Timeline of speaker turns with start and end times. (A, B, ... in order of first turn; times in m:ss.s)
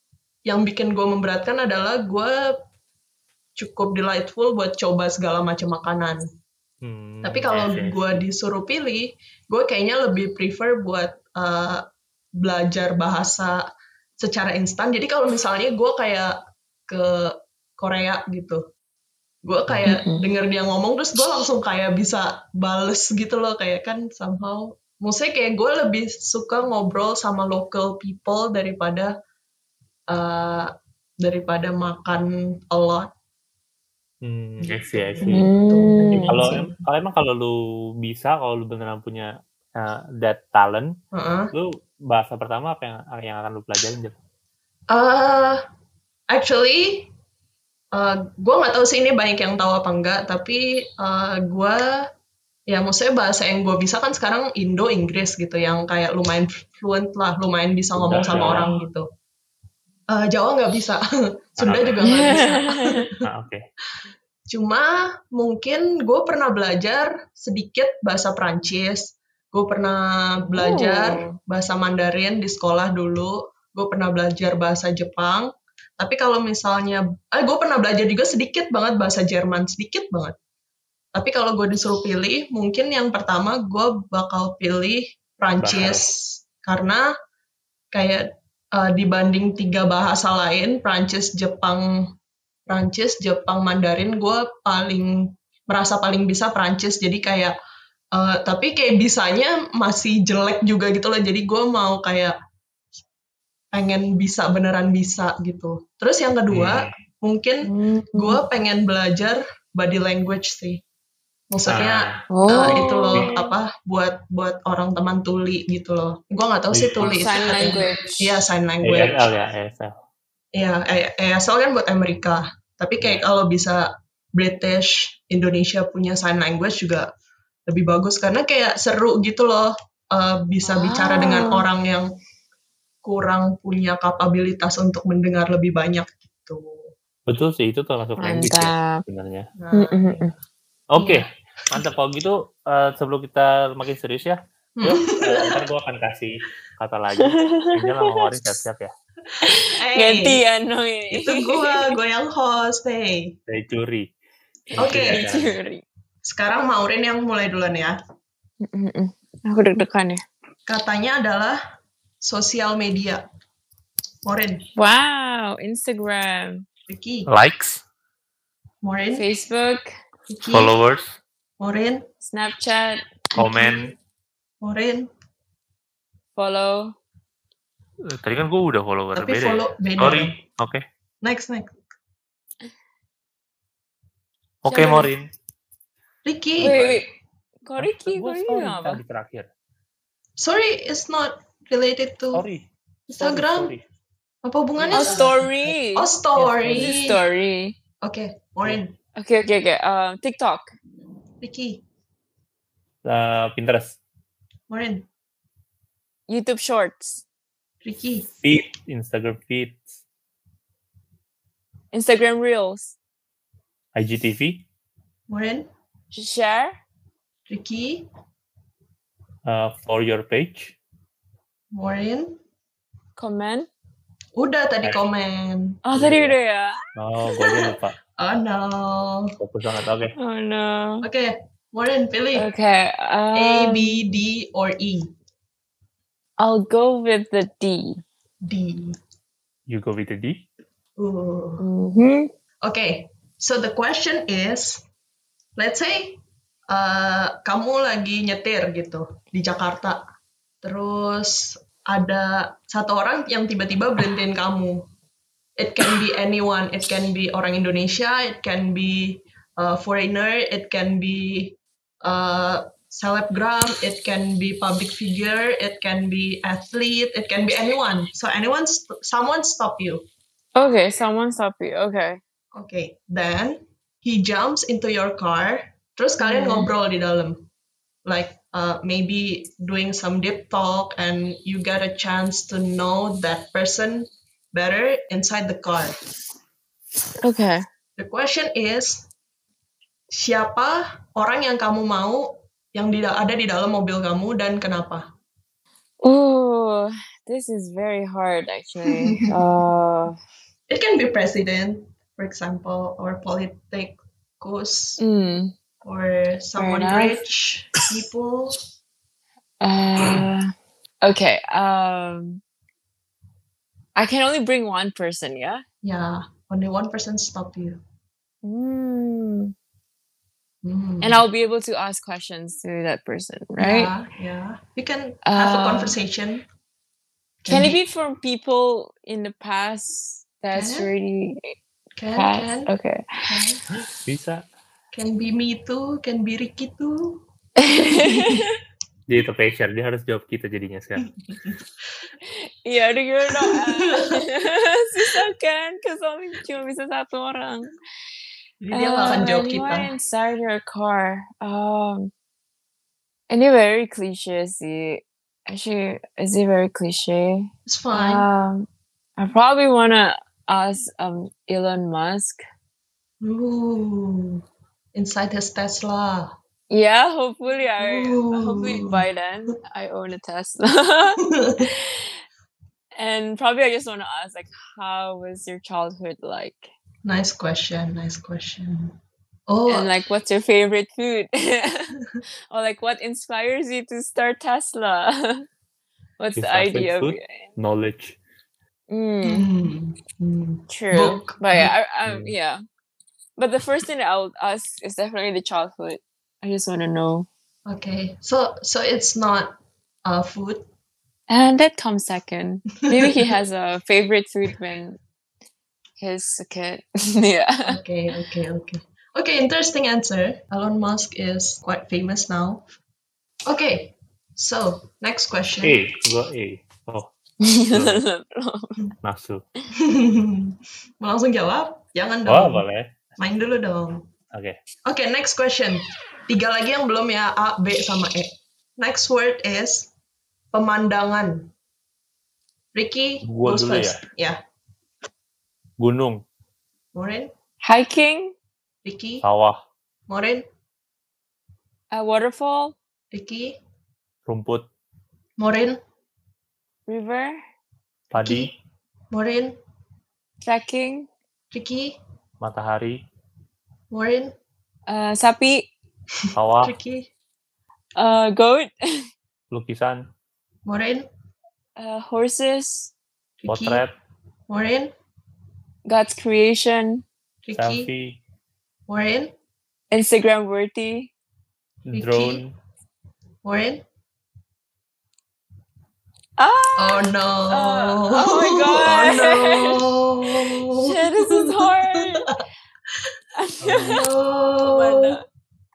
0:00.5-0:02.4 A
0:03.6-0:06.2 A
0:06.8-0:08.2 B
0:07.2-0:11.8 A
0:12.4-0:13.6 A
0:14.2-0:16.3 A
0:16.9-0:18.6 A
0:19.4-0:29.1 A
0:19.7-0:19.9 B
0:19.9-0:20.2 C
0:30.1-0:30.7 A
0:31.2-0:33.1 A
0:34.2-0:35.5 B
0:34.6-0:36.8 A
0:35.3-0:36.6 C
0:36.1-0:40.9 B
0:41.1-0:41.5 A
0:41.5-0:44.2 B
0:44.9-0:45.6 A
0:46.3-0:47.1 A
0:47.9-0:51.8 A
0:52.7-0:59.1 A
0:58.0-0:58.7 B
1:00.1-1:01.0 A
1:01.6-1:03.0 A
1:01.6-1:02.5 B
1:02.0-1:03.0 C
1:03.2-1:03.6 B
1:04.5-1:20.4 A
1:10.5-1:11.3 C
1:21.2-1:27.0 A
1:25.6-1:26.0 B
1:27.9-1:31.8 A
1:32.7-1:37.5 A
1:38.2-1:42.4 A
1:43.7-1:50.8 A
1:46.5-1:46.9 B
1:47.6-1:48.4 C
1:51.5-1:59.3 A
1:51.7-1:53.3 B
1:52.3-1:53.6 C
1:56.7-1:57.8 B
1:57.0-1:58.4 C
1:58.8-1:59.9 B
2:00.6-2:07.1 A
2:07.7-2:12.1 A
2:10.6-2:11.6 C
2:13.0-2:16.9 A
2:17.3-2:19.5 B
2:18.2-2:19.0 C
2:19.6-2:20.3 A
2:19.7-2:20.3 C
2:20.9-2:28.9 B
2:24.8-2:25.6 A
2:27.2-2:28.3 C
2:29.4-2:30.4 A
2:29.4-2:32.0 C
2:31.1-2:33.3 A
2:33.5-2:34.1 B
2:34.7-2:35.8 C
2:34.8-2:35.6 B
2:34.8-2:35.2 A
2:36.2-2:38.0 A
2:38.6-2:40.2 C
2:40.7-2:41.6 A
2:42.2-2:43.2 A
2:44.2-2:44.6 A
2:44.8-2:46.6 C
2:46.9-2:47.3 A
2:47.3-2:47.8 B
2:48.8-2:49.2 A
2:49.1-2:49.9 C
2:50.3-2:50.8 A
2:50.5-2:51.2 B
2:51.6-2:52.0 A
2:52.2-2:53.6 C
2:53.4-2:53.9 B
2:54.6-2:55.1 A
2:56.4-2:57.0 C
2:58.1-3:00.8 B
2:59.2-3:00.4 A
3:01.2-3:01.7 A
3:04.6-3:05.3 B
3:04.7-3:05.0 A
3:04.8-3:05.0 C
3:06.2-3:06.8 A
3:06.6-3:07.0 B
3:06.6-3:07.1 C
3:07.6-3:09.0 C
3:07.8-3:09.5 B
3:10.4-3:12.4 A
3:12.3-3:13.8 B
3:13.1-3:13.7 A
3:14.4-3:15.4 A
3:14.8-3:15.8 B
3:14.9-3:16.1 C
3:16.0-3:17.2 A
3:16.4-3:17.0 B
3:16.7-3:17.8 C
3:18.0-3:19.0 A
3:19.2-3:20.7 C
3:21.4-3:21.8 A
3:23.0-3:24.0 B
3:24.7-3:25.1 A
3:26.3-3:27.2 C
3:27.8-3:28.3 A
3:28.3-3:30.0 B
3:31.9-3:33.0 C
3:34.0-3:34.6 B
3:35.3-3:35.7 A
3:36.1-3:36.8 C
3:37.5-3:38.0 A
3:39.5-3:40.8 B
3:41.8-3:42.4 A
3:43.2-3:43.7 C
3:44.4-3:45.8 A
3:45.8-3:47.8 C
3:46.0-3:46.4 B
3:47.0-3:48.0 B
3:48.2-3:49.4 A
3:49.4-3:50.1 B
3:50.2-3:51.1 C
3:51.0-3:52.5 A
3:52.4-3:54.0 C
3:53.3-3:55.1 A
3:56.4-3:58.0 C
3:58.5-3:59.0 A
3:59.7-4:00.4 B
4:01.0-4:01.6 A
4:01.6-4:02.3 C
4:02.6-4:04.8 A
4:05.6-4:10.0 A
4:10.6-4:14.8 A
4:15.6-4:30.0 A
4:30.6-4:32.2 C
4:32.6-4:37.5 A
4:36.2-4:36.7 C
4:38.1-4:46.0 A
4:47.2-4:47.6 C
4:48.0-4:49.0 A
4:50.1-4:55.0 A
4:56.0-5:00.2 C
4:58.9-4:59.3 A
5:00.7-5:05.0 A
5:05.0-5:05.5 C
5:05.8-5:08.6 A
5:06.6-5:07.2 C
5:09.6-5:10.5 C
5:11.0-5:12.4 C
5:14.0-5:15.6 C
5:15.8-5:17.8 A
5:18.4-5:19.5 C
5:20.6-5:21.2 A
5:21.0-5:23.9 C
5:23.6-5:26.4 A
5:25.3-5:26.0 C
5:27.4-5:27.8 A
5:27.5-5:31.5 C
5:30.5-5:30.9 A
5:32.0-5:32.7 A
5:32.2-5:33.3 C
5:33.3-5:33.6 A
5:33.9-5:34.4 B
5:34.9-5:37.2 A
5:37.6-5:38.5 C
5:37.9-5:38.5 A
5:39.1-5:41.1 B
5:41.3-5:41.6 A
5:42.2-5:47.7 C
5:43.4-5:44.2 A
5:48.6-5:49.9 A
5:48.7-5:52.1 C
5:53.3-6:02.4 C
5:57.7-5:58.3 A
6:03.2-6:04.4 A
6:05.0-6:06.3 A
6:06.7-6:12.1 C
6:07.8-6:09.0 A
6:11.2-6:11.7 A
6:13.0-6:16.7 C
6:17.0-6:18.9 A
6:19.5-6:19.9 A
6:19.7-6:22.0 C
6:22.5-6:25.4 C
6:26.2-6:27.5 C
6:26.4-6:28.2 B
6:28.9-6:29.5 C
6:29.2-6:31.7 A
6:30.7-6:32.6 C
6:32.1-6:32.3 B
6:33.4-6:37.3 C
6:37.7-6:39.6 A
6:40.1-6:40.6 A
6:41.3-6:45.0 C
6:42.9-6:43.3 A
6:46.0-6:47.8 C
6:47.7-6:52.6 A
6:53.5-6:55.8 A
6:55.6-6:57.1 B
6:57.4-6:58.8 C
6:57.7-6:58.0 B
6:59.0-6:59.4 B
6:59.8-7:02.6 A
7:02.3-7:03.0 B
7:03.2-7:04.1 A
7:04.9-7:09.9 A
7:10.5-7:11.5 A
7:12.8-7:14.4 A
7:13.2-7:14.0 B
7:15.8-7:16.2 B
7:17.0-7:17.3 A
7:17.6-7:18.3 C
7:18.8-7:19.2 A
7:19.2-7:19.6 B
7:20.1-7:20.4 A
7:21.9-7:22.8 C
7:23.1-7:23.6 A
7:24.3-7:24.7 B
7:25.4-7:25.8 A
7:26.9-7:27.4 C
7:28.1-7:28.5 B
7:28.2-7:28.5 A
7:29.1-7:29.6 A
7:30.4-7:31.1 C
7:31.5-7:32.0 A
7:32.4-7:33.0 B
7:33.9-7:34.3 A
7:34.9-7:35.7 C
7:36.4-7:36.7 B
7:36.6-7:37.1 A
7:38.0-7:39.0 C
7:39.5-7:40.1 B
7:40.7-7:41.1 A
7:41.8-7:42.9 C
7:43.4-7:43.8 A
7:43.5-7:43.9 B
7:44.5-7:44.9 A
7:45.9-7:47.0 C
7:47.4-7:47.9 A
7:47.6-7:48.2 B
7:48.9-7:49.3 A
7:49.9-7:51.1 C
7:51.9-7:52.5 B
7:51.9-7:52.4 A
7:53.4-7:53.8 A
7:56.4-8:02.4 C
7:56.8-8:02.1 A
8:03.4-8:04.0 C
8:03.6-8:04.0 B
8:03.8-8:05.2 A
8:04.7-8:05.2 C